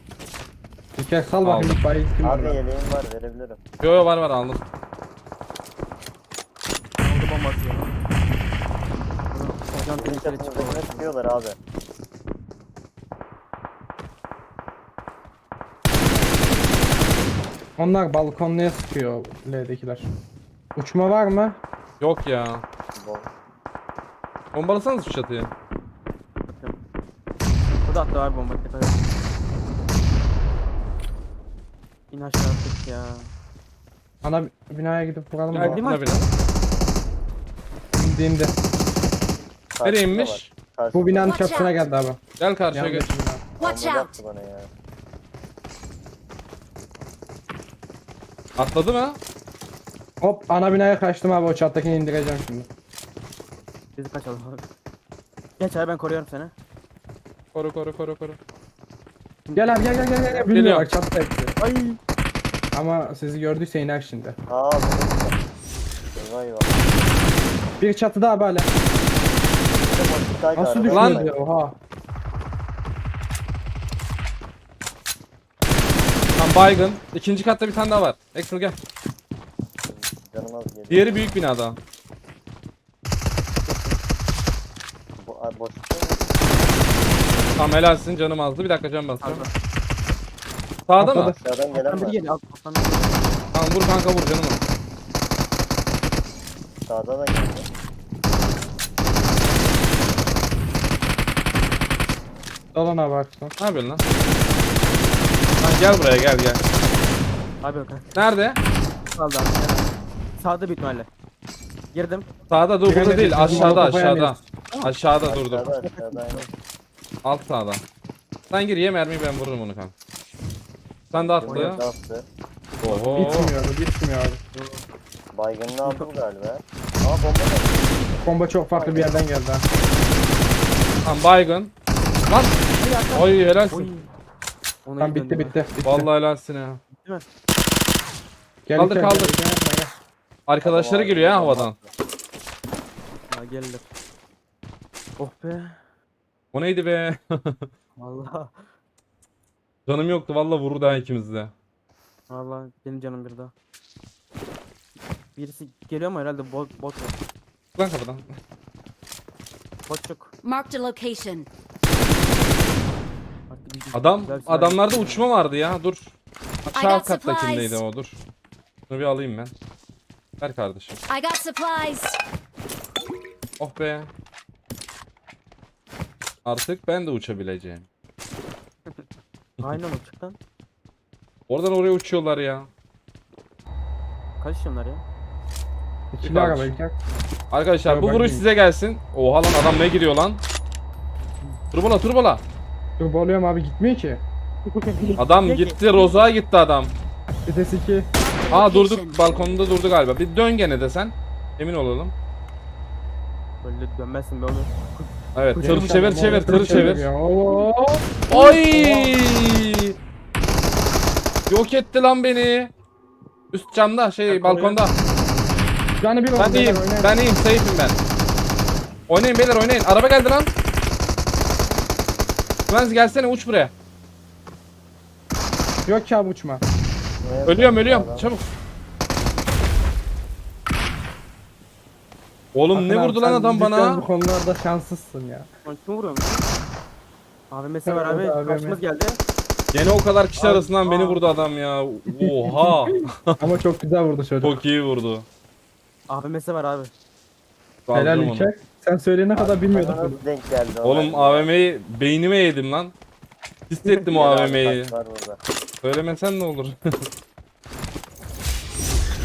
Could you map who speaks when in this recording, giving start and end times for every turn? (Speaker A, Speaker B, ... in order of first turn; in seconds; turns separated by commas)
Speaker A: 1.0-2.6, Speaker B: 1.4-1.8, Speaker C: 2.2-3.6, Speaker B: 3.8-4.6, Speaker D: 7.0-8.0, Speaker D: 9.3-11.1, Speaker C: 9.7-11.6, Speaker A: 17.8-20.1, Speaker A: 20.8-21.6, Speaker B: 22.0-22.6, Speaker C: 22.9-23.3, Speaker B: 24.5-25.5, Speaker D: 26.5-26.8, Speaker D: 27.9-29.1, Speaker D: 32.1-33.3, Speaker A: 34.2-35.8, Speaker B: 35.5-36.3, Speaker D: 35.5-36.3, Speaker A: 37.9-38.5, Speaker C: 39.7-41.7, Speaker B: 39.8-40.5, Speaker A: 40.9-42.2, Speaker E: 41.2-41.7, Speaker B: 42.4-43.1, Speaker A: 42.7-43.5, Speaker E: 43.6-44.2, Speaker C: 43.6-44.7, Speaker B: 48.6-49.2, Speaker A: 50.2-52.7, Speaker D: 54.0-54.7, Speaker D: 55.6-56.5, Speaker B: 57.5-58.4, Speaker D: 59.5-60.5, Speaker A: 59.6-61.5, Speaker B: 60.5-60.9, Speaker D: 61.6-62.0, Speaker A: 62.7-64.4, Speaker C: 64.5-65.4, Speaker C: 66.2-66.8, Speaker A: 67.8-68.7, Speaker C: 69.8-71.4, Speaker A: 70.5-71.8, Speaker B: 70.9-71.2, Speaker B: 76.4-78.8, Speaker C: 79.9-81.4, Speaker B: 80.9-81.8, Speaker C: 83.7-84.0, Speaker C: 85.2-86.2, Speaker B: 87.6-89.5, Speaker D: 89.2-89.5, Speaker B: 90.9-91.3, Speaker A: 91.0-91.4, Speaker C: 91.2-92.2, Speaker D: 91.8-93.4, Speaker B: 93.5-94.6, Speaker C: 96.9-97.7, Speaker A: 102.7-103.5, Speaker B: 103.6-104.0, Speaker B: 105.6-106.6, Speaker D: 107.6-108.2, Speaker B: 108.1-108.6, Speaker D: 109.1-111.1, Speaker D: 111.9-112.3, Speaker B: 112.5-115.8, Speaker A: 112.9-114.4, Speaker D: 113.4-113.9, Speaker C: 115.2-116.5, Speaker D: 115.8-116.5, Speaker B: 117.2-117.8, Speaker B: 118.5-119.9, Speaker B: 121.1-121.8, Speaker C: 121.4-122.3, Speaker D: 121.5-121.8, Speaker B: 122.8-123.5, Speaker D: 122.8-123.5, Speaker A: 123.2-124.4, Speaker D: 124.5-124.8, Speaker C: 125.3-128.0, Speaker A: 128.2-129.7, Speaker D: 128.7-129.2, Speaker B: 131.0-131.7, Speaker B: 132.3-132.6, Speaker D: 132.8-134.1, Speaker B: 133.1-133.9, Speaker D: 134.8-135.6, Speaker A: 135.0-136.1, Speaker B: 135.8-136.8, Speaker D: 136.9-137.2, Speaker A: 138.7-139.9, Speaker B: 138.8-139.4, Speaker B: 140.5-141.8, Speaker C: 140.6-141.9, Speaker D: 143.3-143.8, Speaker D: 145.2-145.8, Speaker B: 146.5-147.7, Speaker D: 148.0-148.7, Speaker B: 149.9-151.5, Speaker D: 152.3-153.5, Speaker D: 155.4-157.2, Speaker B: 157.8-158.3, Speaker D: 159.9-160.3, Speaker E: 160.4-161.5, Speaker D: 163.5-165.3, Speaker B: 163.9-166.1, Speaker B: 166.7-168.2, Speaker E: 166.7-167.8, Speaker B: 168.9-169.5, Speaker B: 170.4-171.0, Speaker E: 171.1-172.2, Speaker B: 173.6-174.1, Speaker B: 176.4-177.9, Speaker D: 179.6-180.4, Speaker B: 181.5-182.7, Speaker D: 184.4-185.0, Speaker A: 186.1-187.0, Speaker B: 186.2-186.7, Speaker B: 187.5-190.4, Speaker A: 187.8-188.4, Speaker B: 191.7-192.4, Speaker A: 193.0-194.2, Speaker D: 194.7-195.8, Speaker B: 195.2-196.9, Speaker A: 197.5-198.1, Speaker E: 198.2-199.3, Speaker B: 198.5-202.1, Speaker D: 203.6-206.9, Speaker B: 205.3-207.1, Speaker A: 205.6-209.2, Speaker B: 208.3-210.0, Speaker B: 211.5-212.7, Speaker B: 213.5-215.0, Speaker D: 214.3-214.8, Speaker A: 216.0-217.2, Speaker B: 216.3-218.0, Speaker B: 219.1-220.5, Speaker B: 222.7-223.7, Speaker A: 225.9-226.7, Speaker C: 227.2-228.3, Speaker B: 227.4-228.4, Speaker B: 232.5-234.0, Speaker A: 232.7-235.5, Speaker D: 235.7-236.5, Speaker D: 237.5-239.2, Speaker A: 237.9-238.8, Speaker B: 239.7-243.2, Speaker D: 240.4-241.3, Speaker A: 242.2-244.6, Speaker B: 244.4-245.3, Speaker D: 246.1-246.9, Speaker B: 247.9-248.5, Speaker A: 247.9-250.2, Speaker C: 249.4-251.5, Speaker B: 250.8-252.9, Speaker B: 253.7-254.9, Speaker C: 254.1-255.4, Speaker B: 255.8-256.8